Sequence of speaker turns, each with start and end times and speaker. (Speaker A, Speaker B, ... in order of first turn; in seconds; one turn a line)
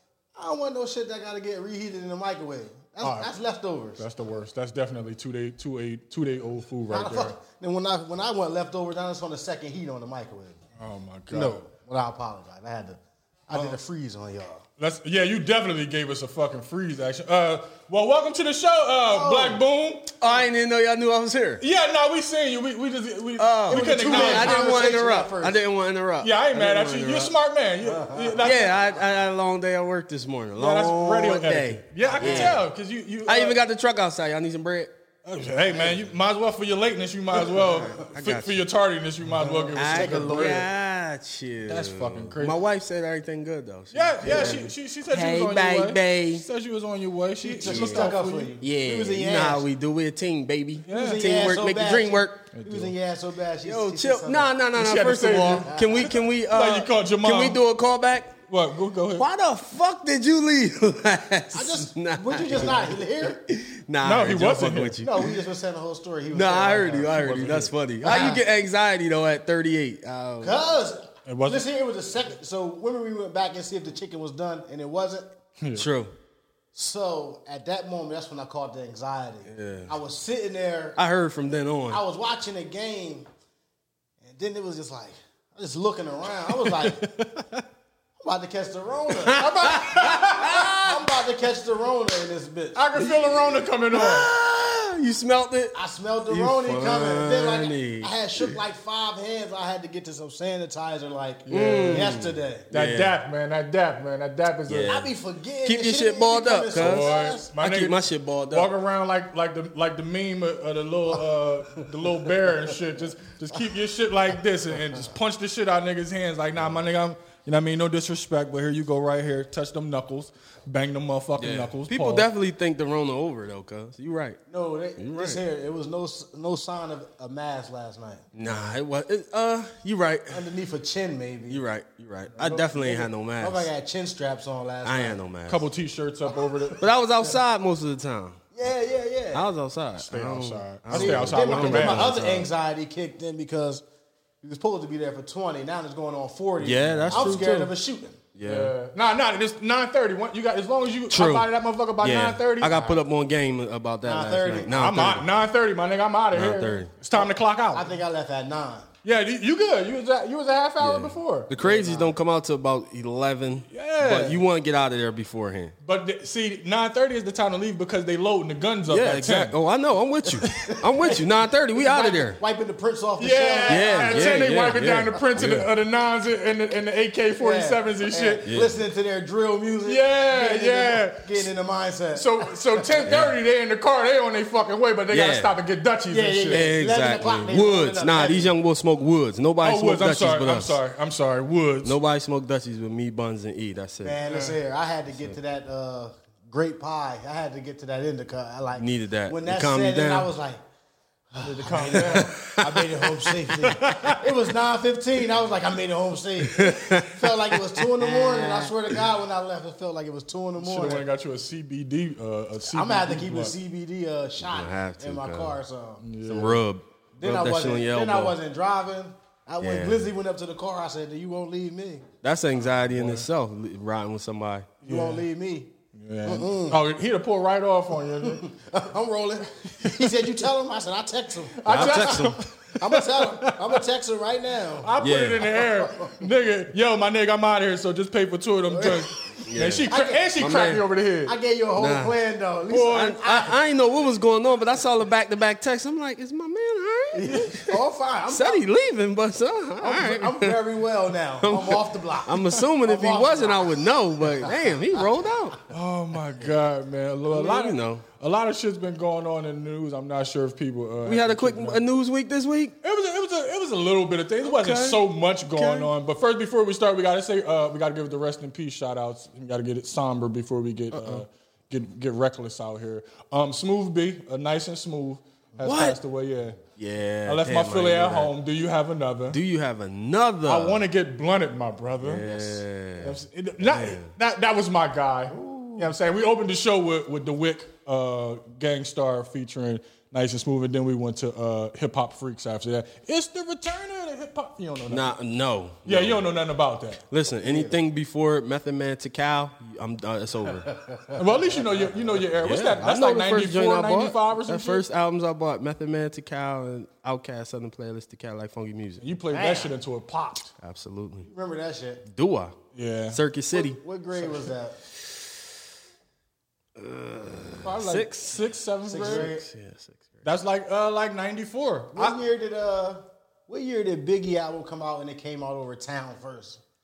Speaker A: 0.4-4.0
Speaker B: 3.0-3.3
Speaker B: 4.0-7.3
Speaker A: 6.9-10.6
Speaker B: 10.8-11.7
Speaker A: 11.3-14.6
Speaker B: 13.5-13.8
Speaker B: 14.8-20.1
Speaker A: 19.1-19.6
Speaker C: 20.2-21.6
Speaker B: 21.6-24.9
Speaker C: 23.4-27.4
Speaker A: 23.7-25.6
Speaker B: 26.2-28.9
Speaker A: 27.8-28.5
Speaker C: 28.4-32.6
Speaker B: 30.6-33.6
Speaker A: 32.1-32.6
Speaker C: 33.2-34.9
Speaker B: 35.2-40.7
Speaker A: 35.7-36.0
Speaker C: 37.5-38.6
Speaker A: 37.6-38.0
Speaker A: 39.4-40.7
Speaker C: 39.7-46.5
Speaker B: 41.6-42.6
Speaker B: 43.9-48.5
Speaker A: 44.2-44.6
Speaker A: 47.4-49.7
Speaker C: 47.6-52.5
Speaker B: 50.9-51.3
Speaker A: 50.9-54.6
Speaker B: 52.5-52.9
Speaker C: 53.6-58.4
Speaker B: 54.8-55.8
Speaker A: 55.7-56.1
Speaker B: 56.5-57.6
Speaker B: 58.5-59.3
Speaker C: 59.2-65.3
Speaker A: 61.5-63.4
Speaker B: 64.0-65.0
Speaker A: 65.0-68.4
Speaker C: 66.3-70.6
Speaker A: 70.4-75.3
Speaker B: 71.3-71.7
Speaker B: 75.6-75.9
Speaker C: 75.8-76.1
Speaker A: 76.7-81.0
Speaker C: 79.5-79.9
Speaker C: 81.0-82.0
Speaker A: 81.9-83.3
Speaker A: 84.2-87.0
Speaker B: 86.6-87.6
Speaker A: 88.2-89.4
Speaker C: 89.2-91.0
Speaker B: 89.3-90.8
Speaker A: 90.8-92.9
Speaker B: 92.8-94.3
Speaker C: 93.9-95.8
Speaker A: 95.7-102.7
Speaker C: 96.3-98.6
Speaker B: 101.5-102.2
Speaker C: 101.5-103.2
Speaker B: 102.7-105.1
Speaker C: 104.7-105.1
Speaker A: 104.9-107.5
Speaker C: 105.6-108.8
Speaker B: 106.7-122.3
Speaker C: 121.4-124.4
Speaker A: 124.5-128.3
Speaker C: 125.0-125.4
Speaker C: 128.3-130.4
Speaker A: 130.3-131.6
Speaker C: 131.5-133.7
Speaker A: 132.4-135.2
Speaker C: 134.8-135.7
Speaker B: 135.5-136.8
Speaker C: 136.8-138.4
Speaker A: 138.5-139.5
Speaker C: 139.3-142.5
Speaker B: 140.0-142.1
Speaker A: 140.9-143.8
Speaker A: 144.4-148.2
Speaker C: 146.6-147.7
Speaker C: 148.3-148.7
Speaker B: 148.4-152.8
Speaker C: 151.1-155.3
Speaker A: 152.7-153.0
Speaker A: 154.0-154.7
Speaker B: 154.7-157.9
Speaker C: 156.3-156.9
Speaker A: 157.1-158.9
Speaker B: 159.0-161.5
Speaker C: 160.8-165.8
Speaker A: 161.6-162.1
Speaker B: 163.7-164.3
Speaker A: 164.0-164.4
Speaker B: 165.8-169.5
Speaker C: 168.9-172.4
Speaker A: 170.6-174.8
Speaker B: 173.2-178.4
Speaker C: 173.7-175.7
Speaker A: 177.4-183.0
Speaker C: 178.4-178.8
Speaker B: 179.8-181.4
Speaker B: 182.1-186.7
Speaker C: 183.1-183.4
Speaker C: 185.1-185.5
Speaker A: 186.1-188.5
Speaker C: 186.5-190.8
Speaker B: 189.6-192.0
Speaker C: 191.8-194.2
Speaker A: 194.0-200.6
Speaker B: 194.3-194.6
Speaker C: 198.7-200.3
Speaker A: 201.3-211.0
Speaker B: 201.4-202.6
Speaker C: 201.9-202.8
Speaker B: 203.7-204.3
Speaker C: 206.5-209.0
Speaker B: 210.6-213.6
Speaker A: 212.7-216.0
Speaker C: 214.4-215.6
Speaker B: 216.0-216.6
Speaker C: 216.2-218.4
Speaker A: 217.2-222.1
Speaker C: 219.6-220.1
Speaker C: 222.2-224.7
Speaker B: 222.7-223.3
Speaker B: 224.8-225.2
Speaker A: 224.8-225.7
Speaker B: 225.9-228.5
Speaker A: 226.2-226.8
Speaker A: 228.2-234.9
Speaker B: 229.8-230.3
Speaker B: 231.6-233.8
Speaker C: 231.7-232.4
Speaker B: 234.8-241.4
Speaker C: 235.0-235.6
Speaker A: 235.6-236.2
Speaker A: 238.7-239.0
Speaker C: 239.5-240.8
Speaker A: 239.9-240.3
Speaker A: 241.3-243.6
Speaker C: 241.8-242.2
Speaker B: 242.7-243.3
Speaker C: 242.7-247.6
Speaker A: 247.1-248.7
Speaker B: 247.3-247.8
Speaker C: 248.3-250.6
Speaker A: 249.8-253.8
Speaker C: 251.4-255.6
Speaker B: 255.7-261.8
Speaker C: 257.3-258.1
Speaker C: 261.1-262.8
Speaker B: 262.8-276.6
Speaker C: 264.4-265.9
Speaker C: 270.9-271.2
Speaker C: 275.6-276.0
Speaker C: 276.8-278.3
Speaker B: 277.2-279.4
Speaker C: 279.3-280.9
Speaker B: 280.4-282.2
Speaker C: 282.0-284.1
Speaker A: 282.2-282.6
Speaker B: 283.0-295.1
Speaker A: 285.3-285.9
Speaker C: 294.9-296.3
Speaker B: 295.9-297.0
Speaker C: 297.1-300.7
Speaker A: 297.4-297.8
Speaker A: 300.7-301.2
Speaker B: 301.1-304.8
Speaker C: 302.4-309.1
Speaker B: 309.0-310.5
Speaker A: 309.3-309.7
Speaker C: 310.6-311.3
Speaker A: 311.2-312.1
Speaker C: 312.1-312.6
Speaker B: 312.7-313.2
Speaker C: 313.1-313.8
Speaker A: 313.5-314.8
Speaker C: 316.8-320.3
Speaker B: 317.6-319.3
Speaker A: 318.9-319.5
Speaker B: 320.2-322.2
Speaker A: 321.9-326.6